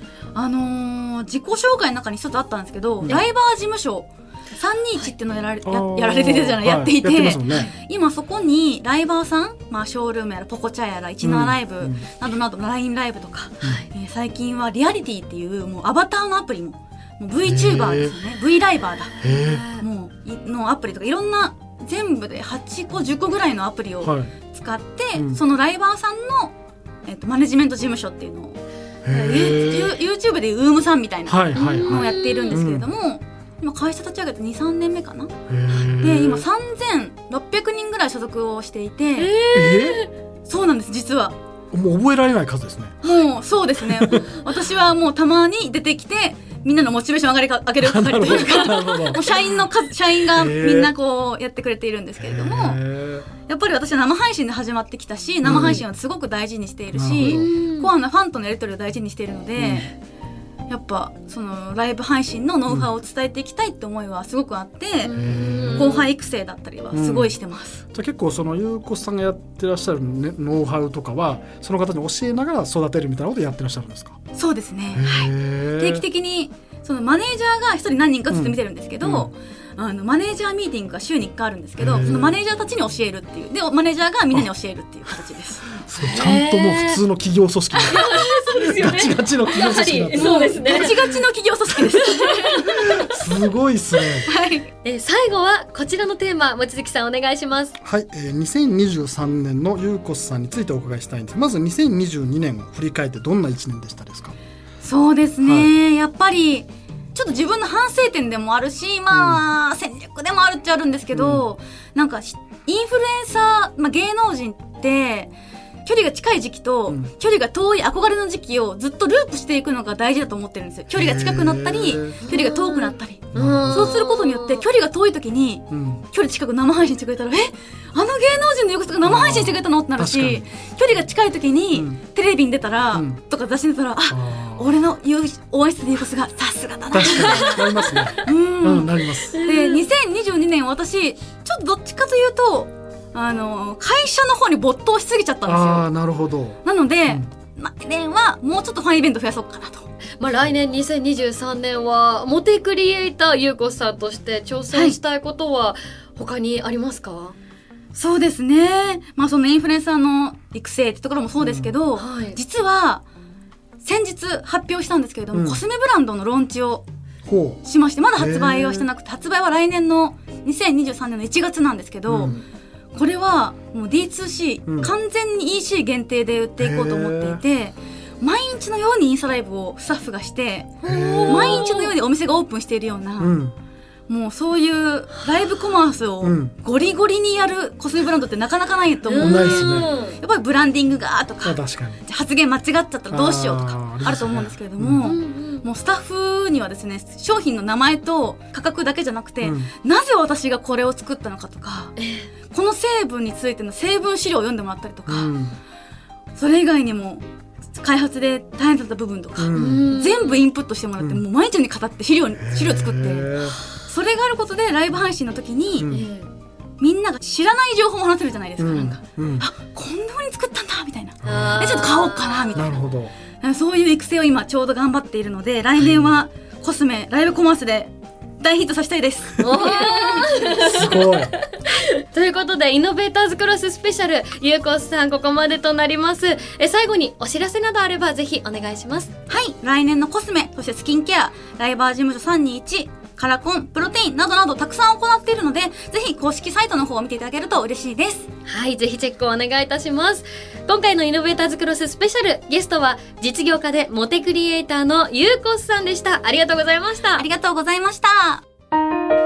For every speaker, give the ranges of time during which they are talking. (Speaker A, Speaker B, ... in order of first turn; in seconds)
Speaker A: 0.3-35.3, 36.0-39.3, 40.5-41.4, 43.0-52.8, 53.5-59.9, 60.7-65.1, 65.7-67.8, 74.3-85.8, 90.2-93.1, 94.2-94.7, 104.8-115.3, 115.8-145.9, 146.6-149.9, 154.7-155.0, 157.9-163.0, 163.8-166.8, 167.7-172.3, 172.9-183.3, 184.1-201.9, 202.5-205.3, 206.3-207.2, 207.8-215.9, 216.8-222.7, 223.4-230.8, 239.3-248.3, 257.2-258.4
Speaker B: 5.6-7.7, 11.2-12.0, 17.4-18.1, 19.2-19.7, 24.0-24.3, 25.1-25.4, 29.0-30.0, 31.3-32.9, 35.5-36.4, 39.5-40.0, 41.7-43.0, 43.9-44.3, 47.8-49.3, 50.3-50.9, 52.2-53.3, 55.4-55.8, 56.9-57.5, 59.6-59.9, 65.1-66.1, 66.9-67.3, 67.9-74.2, 74.9-76.0, 78.3-79.3, 81.8-82.4, 85.8-91.1, 92.8-94.3, 97.8-104.3, 105.4-105.7, 109.1-109.4, 111.1-111.5, 120.9-122.2, 123.3-123.9, 125.7-126.0, 129.0-130.4, 131.7-132.0, 132.9-133.2, 134.1-134.7, 136.9-139.4, 145.4-147.2, 161.4-161.7, 165.3-165.6, 167.2-167.6, 168.2-168.9, 172.1-172.4, 174.7-174.9, 176.6-177.4, 180.8-181.8, 183.2-183.5, 186.2-186.5, 189.2-189.9, 191.4-192.0, 193.1-195.1, 199.4-199.7, 205.1-205.6, 209.4-209.9, 211.0-211.2, 212.4-213.6, 215.8-216.1, 218.6-219.5, 221.2-221.8, 222.5-223.1, 225.8-226.2, 230.6-231.3
Speaker C: 19.2-19.8, 31.5-32.6, 39.2-40.1, 57.2-57.9, 65.0-66.1, 86.0-87.0, 87.8-91.0, 91.9-93.2, 94.8-97.8, 122.2-124.6, 137.3-138.0, 139.3-139.9, 150.2-157.3, 161.9-162.4, 180.8-181.9, 189.1-190.2, 195.0-195.6, 202.0-202.3, 209.5-210.4, 215.9-216.3, 221.2-222.6, 229.4-239.1, 248.5-257.3